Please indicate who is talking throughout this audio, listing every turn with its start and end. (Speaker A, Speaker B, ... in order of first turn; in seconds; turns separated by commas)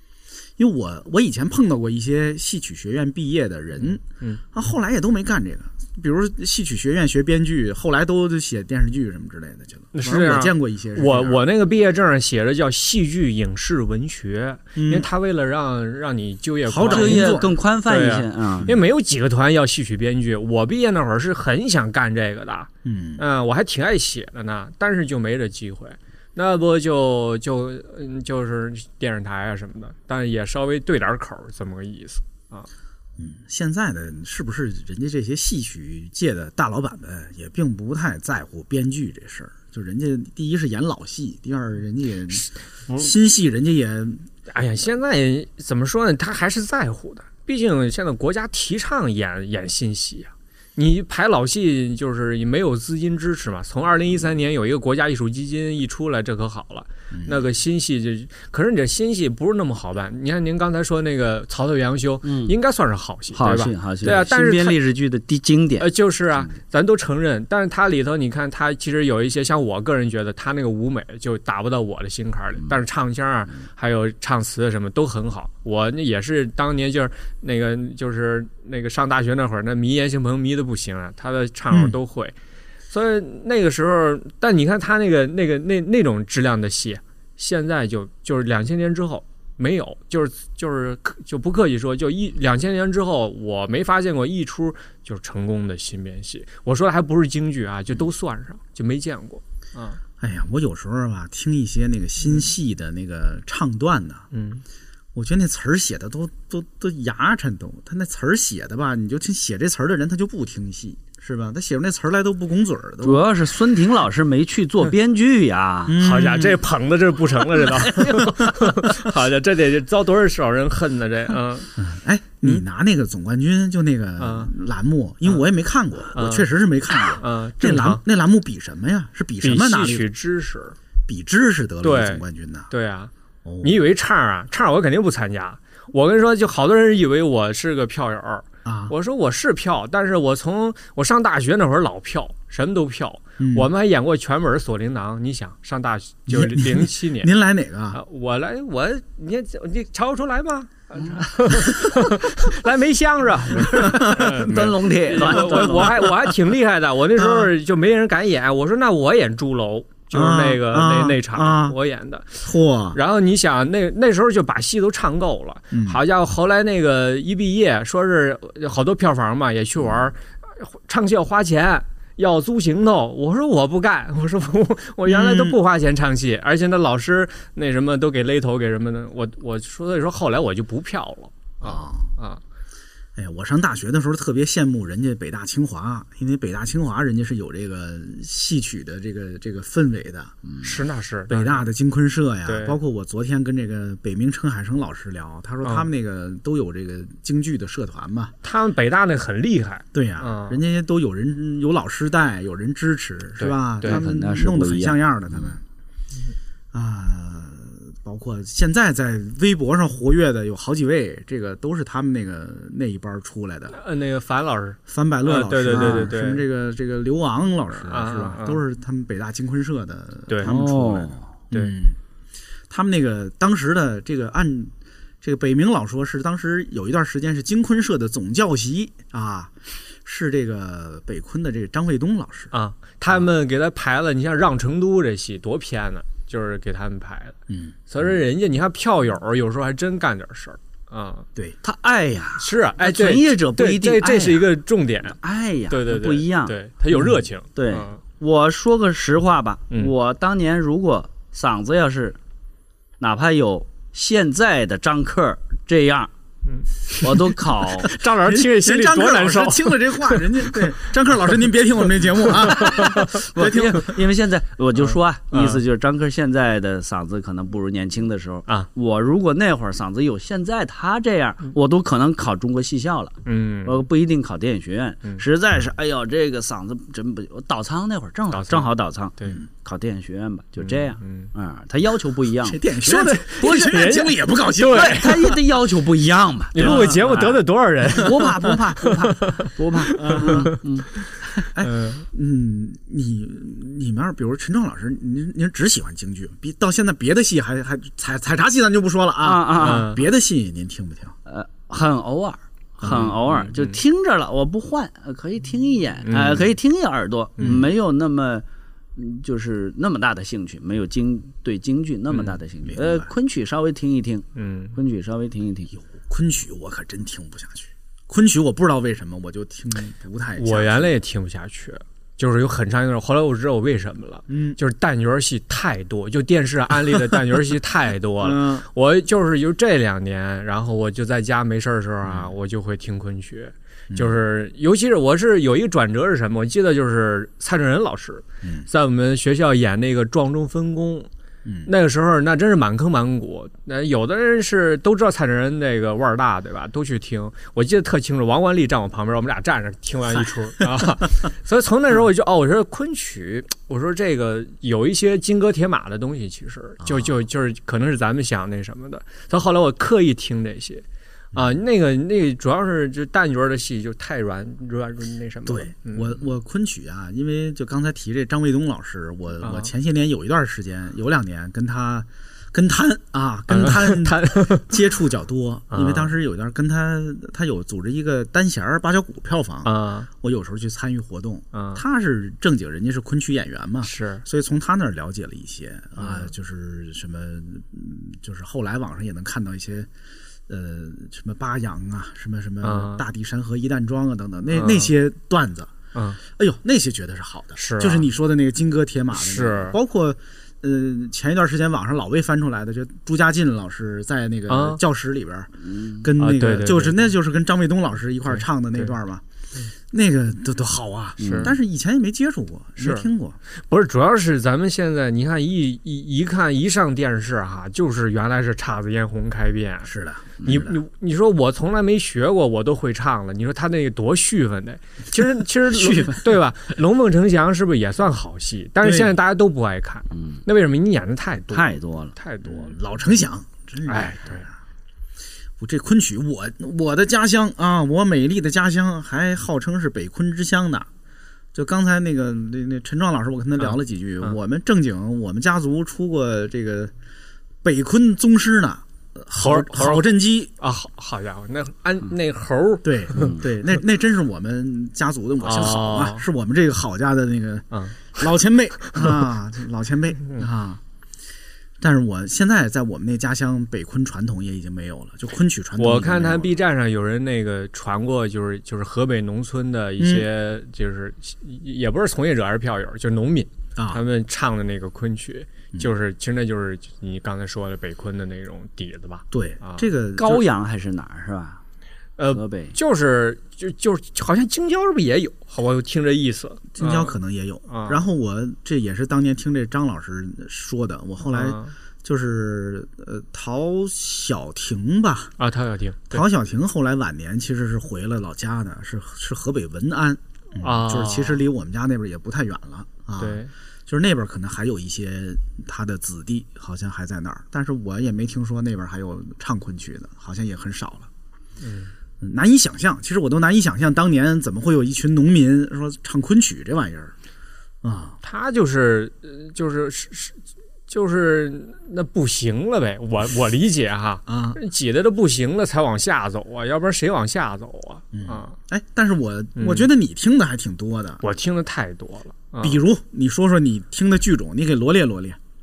Speaker A: 0.6-4.0, Speaker B: 3.8-4.4, Speaker A: 4.5-11.4, Speaker B: 9.9-32.7, Speaker A: 14.8-15.1, Speaker A: 16.6-17.5, Speaker C: 16.9-18.7, Speaker A: 18.6-18.8, Speaker A: 22.8-23.2, Speaker A: 33.2-44.2, Speaker B: 44.5-64.8, Speaker A: 57.1-57.5, Speaker C: 62.2-62.5, Speaker C: 63.3-65.9, Speaker B: 65.8-82.3, Speaker B: 82.9-100.0, Speaker A: 100.2-104.3, Speaker B: 104.3-104.6, Speaker A: 105.1-113.3, Speaker C: 113.0-116.0, Speaker A: 115.9-116.6, Speaker B: 116.0-121.7, Speaker A: 118.3-118.7, Speaker A: 121.8-130.1, Speaker B: 124.2-124.5, Speaker B: 126.1-126.5, Speaker B: 127.1-128.0, Speaker B: 129.4-130.8, Speaker A: 131.1-132.7, Speaker B: 131.8-133.1, Speaker A: 133.4-133.8, Speaker B: 133.6-147.3, Speaker A: 138.6-138.9, Speaker A: 143.4-143.7, Speaker A: 146.3-148.0, Speaker B: 147.9-182.4, Speaker A: 153.6-154.5, Speaker C: 154.2-156.0, Speaker A: 155.3-156.1, Speaker A: 157.2-157.5, Speaker A: 160.1-161.8, Speaker A: 162.4-163.0, Speaker A: 165.7-166.0, Speaker A: 169.8-170.1, Speaker A: 175.1-175.6, Speaker A: 181.6-182.1, Speaker A: 183.2-190.3, Speaker B: 190.6-191.6, Speaker A: 191.3-198.3, Speaker B: 192.4-192.8, Speaker B: 198.4-200.6, Speaker A: 199.9-205.6, Speaker B: 203.4-204.0, Speaker C: 203.8-205.0, Speaker A: 206.7-213.8, Speaker B: 213.7-216.4, Speaker A: 214.9-222.0, Speaker C: 215.7-216.1, Speaker B: 217.8-218.6, Speaker C: 220.4-221.2, Speaker A: 222.7-229.5, Speaker A: 230.0-232.5, Speaker B: 232.5-237.4, Speaker A: 237.5-237.8, Speaker B: 237.9-241.3, Speaker C: 241.6-244.4, Speaker B: 242.4-245.2, Speaker C: 245.1-246.5, Speaker B: 245.7-248.0, Speaker C: 247.5-252.2, Speaker C: 253.0-256.1, Speaker B: 256.4-260.4, Speaker C: 257.0-257.9, Speaker A: 258.2-263.9, Speaker C: 262.5-282.6, Speaker B: 262.6-263.0, Speaker B: 265.3-265.6, Speaker B: 273.2-273.9, Speaker B: 278.3-279.4, Speaker B: 280.6-281.3, Speaker A: 282.4-285.2, Speaker B: 282.8-285.3, Speaker C: 283.4-283.9, Speaker C: 284.6-290.9, Speaker B: 286.5-290.5, Speaker A: 286.6-287.2, Speaker A: 289.9-290.6, Speaker A: 291.5-301.1, Speaker B: 291.6-292.0, Speaker C: 299.2-299.9, Speaker B: 299.6-300.0, Speaker C: 301.2-308.4, Speaker A: 302.8-303.1, Speaker B: 302.9-303.8, Speaker B: 306.1-306.5, Speaker A: 307.4-307.7, Speaker C: 308.9-315.7, Speaker A: 312.7-313.1, Speaker B: 314.4-314.7, Speaker A: 315.7-320.9, Speaker B: 320.4-341.1, Speaker A: 324.3-324.6, Speaker A: 328.2-328.6, Speaker A: 332.0-332.3, Speaker B: 341.6-366.2, Speaker A: 356.8-357.1, Speaker A: 361.3-361.6, Speaker A: 365.5-389.9, Speaker B: 369.4-369.7, Speaker B: 373.5-374.7, Speaker B: 375.7-376.1, Speaker B: 379.6-380.1, Speaker B: 381.5-381.8, Speaker B: 383.8-384.2, Speaker B: 386.0-386.3, Speaker A: 390.5-409.2, Speaker B: 392.6-393.0, Speaker B: 394.5-394.9, Speaker B: 397.6-398.1, Speaker B: 399.1-399.8, Speaker B: 404.5-404.8, Speaker C: 405.6-406.0, Speaker B: 406.2-407.1, Speaker B: 408.3-408.9, Speaker A: 409.9-413.4, Speaker C: 411.2-411.5, Speaker B: 411.2-411.5, Speaker B: 412.8-413.1, Speaker B: 413.7-419.9, Speaker A: 419.9-420.8, Speaker B: 420.4-432.8, Speaker A: 428.8-429.1, Speaker C: 430.1-430.4, Speaker C: 431.5-432.1, Speaker A: 432.4-434.6, Speaker B: 433.9-434.4, Speaker A: 435.6-440.9, Speaker A: 441.5-446.9, Speaker B: 443.6-444.4, Speaker A: 447.6-450.5, Speaker B: 449.4-450.1, Speaker B: 450.6-453.4, Speaker A: 452.8-460.8, Speaker B: 455.4-456.2, Speaker B: 457.7-458.2, Speaker A: 461.8-466.6, Speaker B: 465.8-479.9, Speaker A: 470.0-470.3, Speaker A: 473.8-474.0, Speaker A: 479.3-480.4, Speaker C: 480.1-481.6, Speaker B: 482.2-487.1, Speaker C: 482.3-482.7, Speaker A: 486.7-495.3, Speaker B: 487.7-488.0, Speaker B: 491.2-491.7, Speaker B: 495.4-496.2, Speaker A: 496.1-511.1, Speaker B: 500.6-501.4, Speaker B: 503.2-503.5, Speaker B: 511.6-511.9, Speaker A: 512.2-517.1, Speaker A: 517.8-518.2, Speaker B: 518.2-520.4, Speaker B: 520.9-528.5, Speaker A: 524.3-524.6, Speaker A: 528.1-531.2, Speaker B: 529.6-529.9, Speaker B: 531.2-532.8, Speaker A: 532.6-535.4